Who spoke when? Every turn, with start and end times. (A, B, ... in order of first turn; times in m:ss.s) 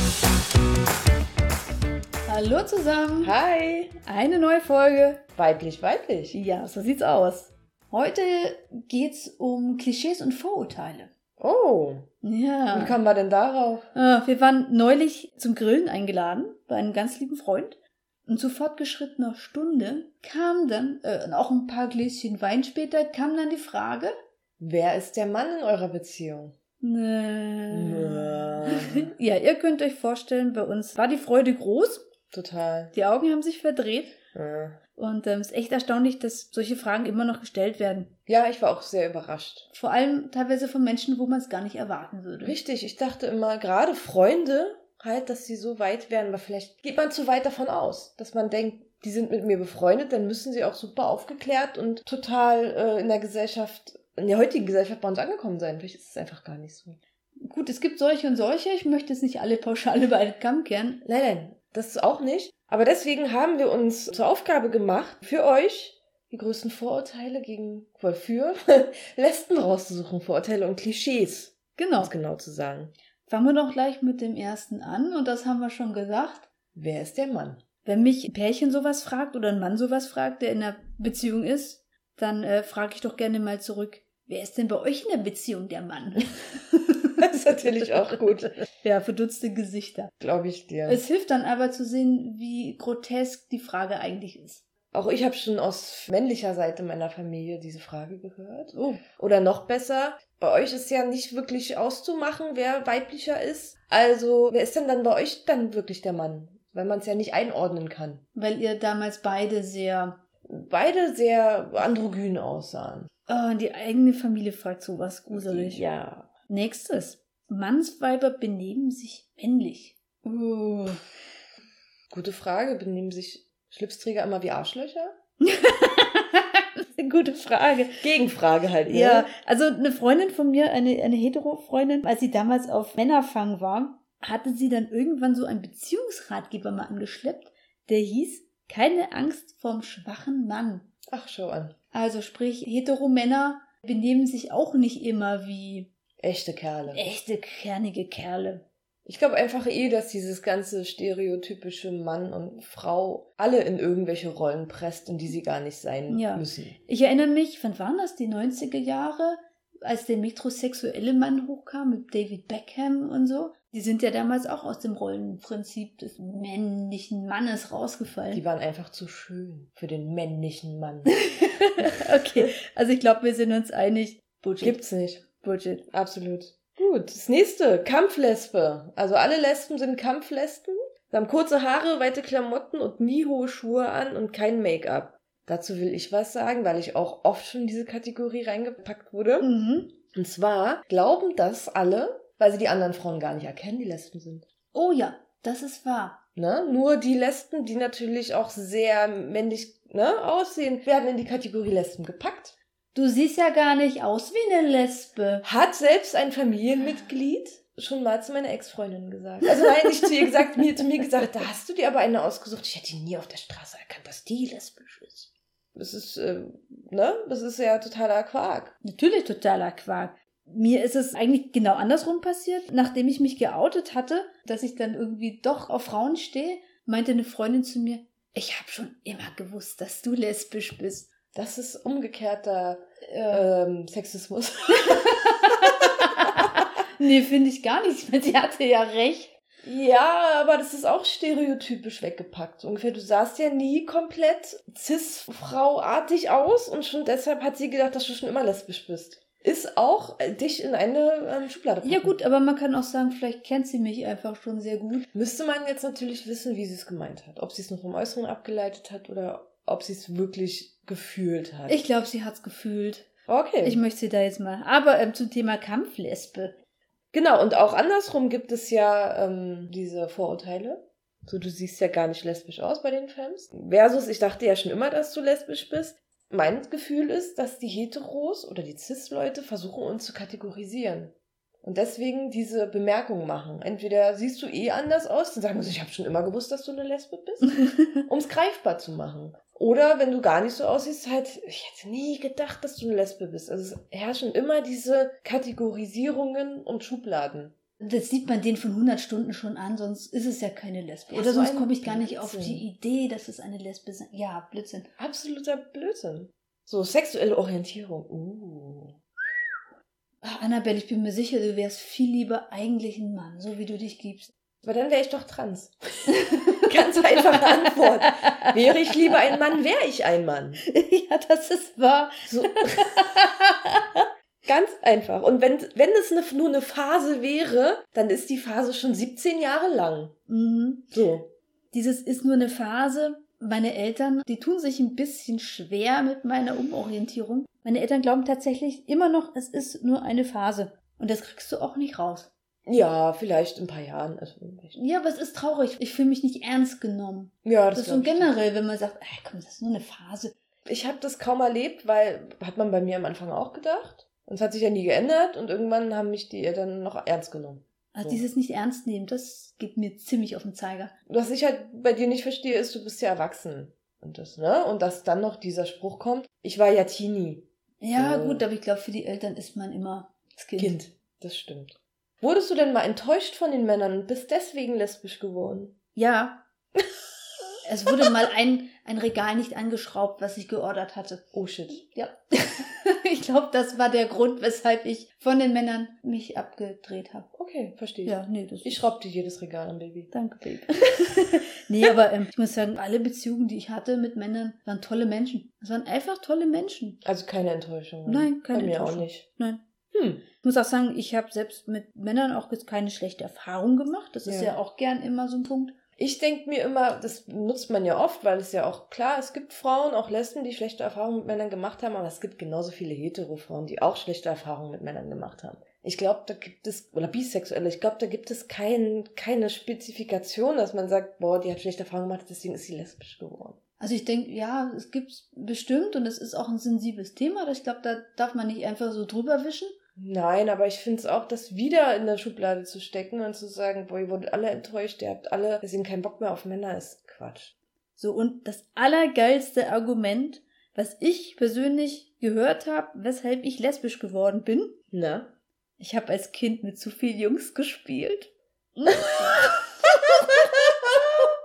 0:02.3-0:03.3 A
0:03.2-0:03.9 B
0:04.0-0:05.2 A
0:05.4-0:06.4 B
0:06.3-0:11.1 A
0:11.4-0:12.1 B
0:12.2-0:13.0 A
0:12.7-0:13.9 B
0:13.9-0:24.1 A
0:24.6-0:26.5 B
0:26.8-0:32.0 A
0:27.7-0:29.1 B
0:32.3-0:32.9 B
0:32.9-0:34.2 A
0:34.3-0:34.8 B
0:35.0-0:38.1 A
0:38.3-0:39.7 B
0:39.7-0:42.6 A
0:42.4-0:57.0 B
0:57.4-1:01.0 A
1:01.0-1:12.9 B
1:11.8-1:12.1 A
1:13.3-1:16.5 A
1:16.7-1:17.6 B
1:17.8-1:30.1 A
1:27.2-1:28.5 B
1:30.2-1:31.0 B
1:30.8-1:34.6 A
1:34.9-1:48.2 B
1:38.7-1:39.0 A
1:48.3-1:50.2 A
1:50.5-1:53.1 B
1:53.3-1:55.8 A
1:55.3-1:56.3 B
1:56.5-2:01.1 A
2:02.1-2:05.1 B
2:05.4-2:08.1 A
2:08.0-2:09.3 B
2:08.9-2:20.9 A
2:21.1-2:21.8 B
2:21.9-2:25.9 A
2:26.2-2:27.0 B
2:26.9-2:28.6 A
2:29.0-2:36.8 B
2:36.1-2:48.4 A
2:48.3-2:51.2 B
2:51.1-2:54.8 A
2:51.9-2:52.5 B
2:54.6-2:55.2 B
2:55.3-2:55.8 A
2:55.9-3:09.5 B
3:09.4-3:09.9 A
3:10.1-3:14.4 B
3:14.7-3:16.2 A
3:16.4-3:22.6 B
3:22.9-3:25.4 A
3:25.4-3:38.7 B
3:38.8-3:51.1 A
3:51.3-3:56.4 B
3:53.0-3:53.4 A
3:54.8-3:59.3 A
3:59.6-4:12.1 B
4:11.8-4:15.0 A
4:15.1-4:21.8 B
4:21.7-4:23.1 A
4:23.3-4:23.8 B
4:23.6-4:26.5 A
4:27.1-4:47.5 B
4:48.0-4:57.5 B
4:57.8-5:04.9 A
5:01.1-5:02.6 B
5:05.0-5:09.4 B
5:10.2-5:14.3 A
5:14.6-5:16.1 B
5:16.1-5:19.4 A
5:16.6-5:20.6 B
5:20.6-5:24.0 A
5:22.2-5:23.1 B
5:24.4-5:30.1 B
5:30.3-5:30.9 A
5:30.9-5:31.3 B
5:31.7-5:42.3 A
5:42.7-5:44.8 B
5:44.7-5:50.3 A
5:47.4-5:48.3 B
5:50.6-5:58.2 B
5:57.9-6:00.9 A
6:01.1-6:08.4 B
6:07.8-6:10.8 A
6:10.6-6:15.8 B
6:15.9-6:16.4 A
6:17.6-6:27.3 A
6:21.3-6:21.8 B
6:27.3-6:30.1 B
6:28.0-6:28.9 A
6:30.1-6:37.0 A
6:37.0-6:39.2 B
6:38.0-6:39.6 A
6:39.9-6:40.2 B
6:40.4-6:45.8 A
6:44.2-6:44.5 B
6:46.0-7:03.6 B
7:03.8-7:09.7 A
7:10.0-7:17.5 B
7:18.0-7:24.7 A
7:24.9-7:25.3 B
7:25.8-7:31.0 A